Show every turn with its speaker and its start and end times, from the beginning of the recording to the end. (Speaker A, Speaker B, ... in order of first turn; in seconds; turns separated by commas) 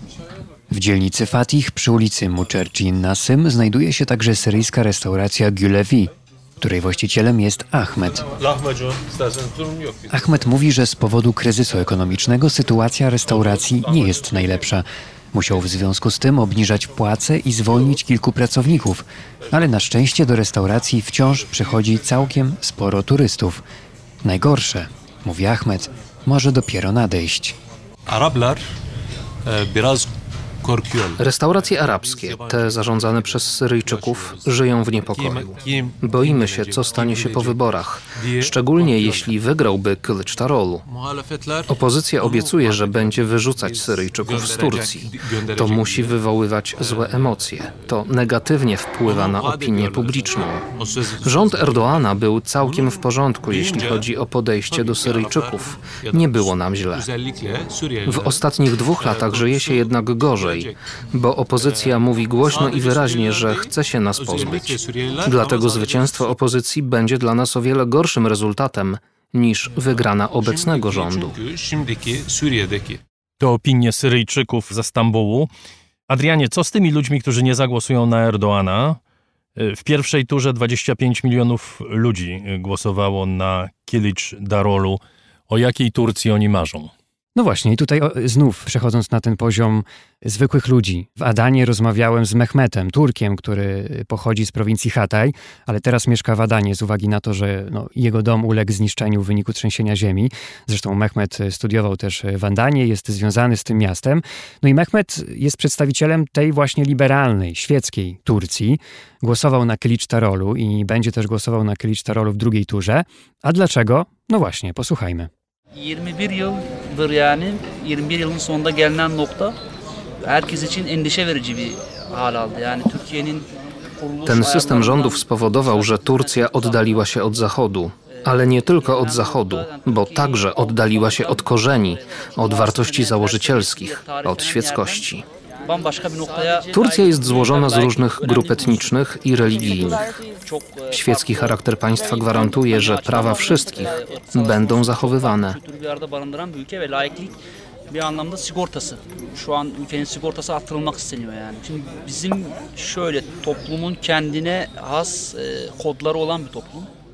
Speaker A: 0.7-8.3, Speaker B: 8.3-10.4, Speaker A: 10.1-23.6, Speaker B: 13.3-14.7, Speaker A: 24.2-27.6, Speaker B: 28.1-28.6, Speaker B: 29.4-30.1, Speaker B: 30.6-39.4, Speaker C: 31.2-40.9, Speaker B: 40.9-48.0, Speaker C: 41.7-57.1, Speaker B: 49.0-54.1, Speaker B: 54.6-66.4, Speaker C: 58.0-71.4, Speaker B: 69.8-73.0, Speaker D: 73.4-75.5, Speaker D: 76.1-79.0, Speaker D: 79.6-86.9, Speaker A: 87.4-115.3, Speaker E: 115.8-119.6, Speaker E: 120.2-156.9, Speaker C: 124.2-135.2, Speaker C: 136.7-140.0, Speaker C: 140.9-145.6